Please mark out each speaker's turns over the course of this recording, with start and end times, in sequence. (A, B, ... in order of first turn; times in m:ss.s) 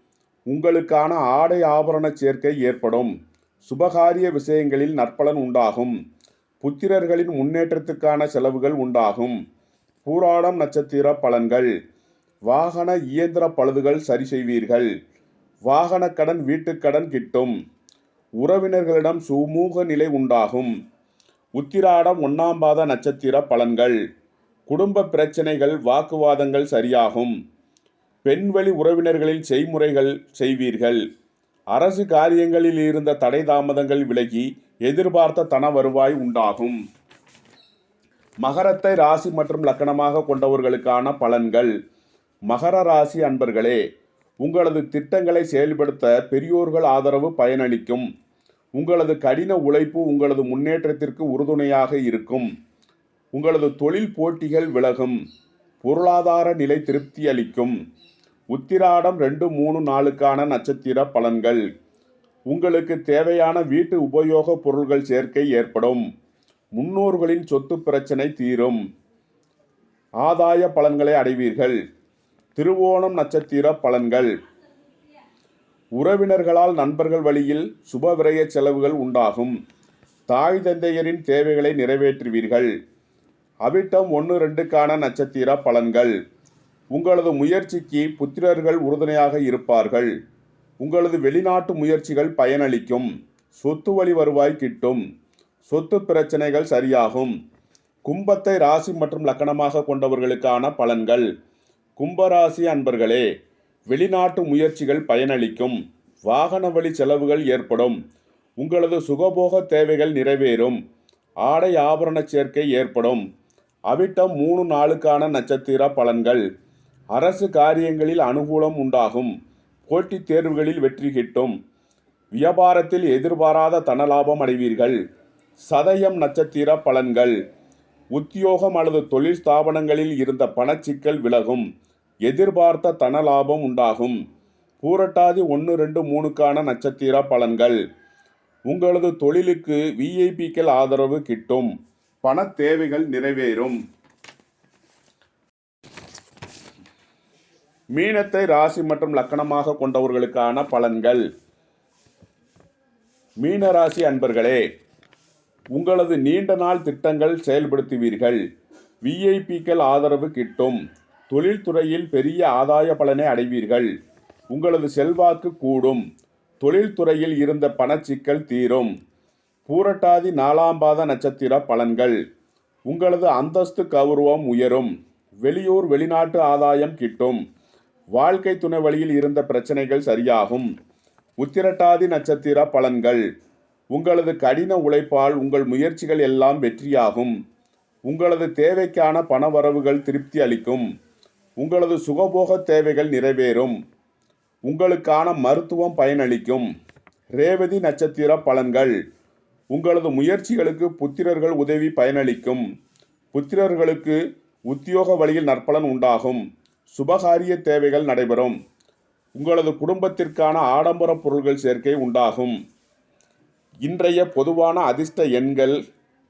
0:00.5-0:03.1 A
0:03.6-0:06.0 A
0:06.6-0:09.4 A
0:10.0-0:11.7 A
0:12.5-0:14.9 A
0:15.7-0:17.5 A
0:18.4-0:20.7 A
0:21.6-0:24.0 A
0:24.7-0:27.4 A
0:28.2-0:31.0 A
0:31.7-0:36.8 A
0:38.4-0:41.7 A
0:42.5-0:43.8 A
0:44.4-0:48.1 A
0:48.8-0:52.5 A
0:53.3-0:55.2 A
0:55.8-0:57.8 A
0:58.5-1:01.6 A
1:02.5-1:06.0 A
1:06.8-1:08.8 A
1:10.2-1:11.8 A
1:12.6-1:14.3 A
1:16.0-1:19.5 A
1:20.3-1:22.7 A
1:23.6-1:26.1 A
1:26.9-1:30.1 A
1:30.8-1:35.0 A
1:35.7-1:37.3 A
1:38.1-1:41.3 A
1:42.0-1:43.2 A
1:43.9-1:48.0 A
1:48.6-1:50.8 A
1:51.4-1:53.2 A
1:53.9-1:56.4 A
1:57.1-1:59.3 A
1:59.9-2:01.6 A
2:02.4-2:05.0 A
2:05.7-2:07.4 A
2:08.1-2:11.6 A
2:12.2-2:14.2 A
2:14.8-2:17.8 A
2:18.7-2:21.7 A
2:22.2-2:23.8 A
2:28.0-2:31.2 A
2:33.4-2:34.6 A
2:35.7-2:38.4 A
2:39.0-2:43.9 A
2:44.5-2:46.0 A
2:46.6-2:48.9 A
2:49.7-2:52.2 A
2:52.9-2:54.9 A
2:55.4-2:57.4 A
2:58.1-3:00.7 A
3:01.4-3:03.2 A
3:03.9-3:07.4 A
3:08.1-3:10.9 A
3:11.6-3:13.8 A
3:14.7-3:16.7 A
3:17.4-3:18.9 A
3:19.7-3:22.6 A
3:23.3-3:24.2 A
3:24.7-3:28.6 A
3:29.4-3:32.6 A
3:33.8-3:35.8 A